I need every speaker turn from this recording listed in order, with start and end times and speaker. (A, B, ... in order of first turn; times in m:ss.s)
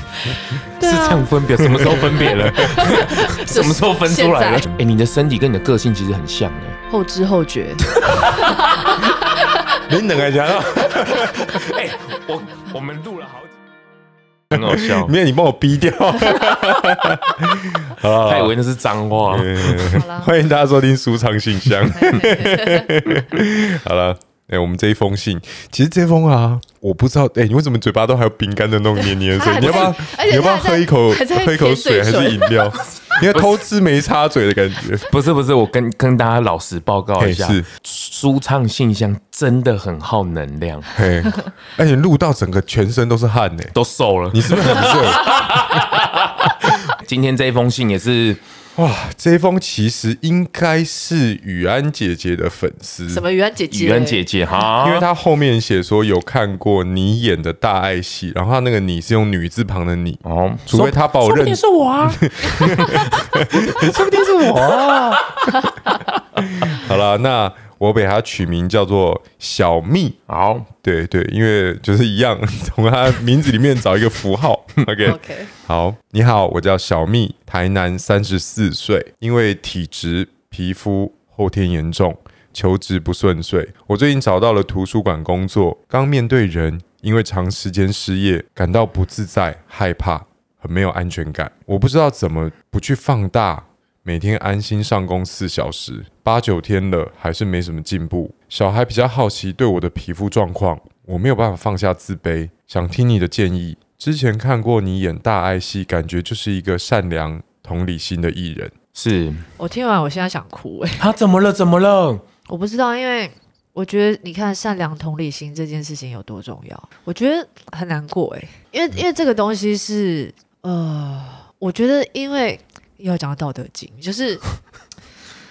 0:00.8-0:06.8 A
0:00.8-0:01.3 B
0:01.6-0:03.0 C
0:02.6-0:04.8 B
0:06.9-0:09.6 B
0:07.9-0:08.8 A
0:09.8-0:11.5 C
0:10.7-0:13.5 A
0:14.5-0:15.1 A
0:14.5-0:18.5 C
0:18.2-0:20.0 A
0:19.3-0:35.1 C
0:19.9-0:20.3 B
0:22.0-0:22.9 B
0:29.3-0:32.6 B
0:33.1-0:33.6 A
0:35.1-0:40.9 A
0:37.2-0:37.7 C
0:40.9-0:43.7 C
0:43.7-0:48.4 A
0:44.3-0:45.4 C
0:48.8-0:53.2 C
0:53.1-0:54.2 B
0:53.7-0:55.1 A
0:54.8-1:05.6 C
1:00.2-1:05.5 A
1:06.4-1:10.2 C
1:10.3-1:10.7 A
1:10.7-1:48.7 C
1:15.0-1:15.5 B
1:48.9-1:49.5 A
1:49.6-1:51.0 B
1:51.0-1:52.2 A
1:52.5-2:04.4 B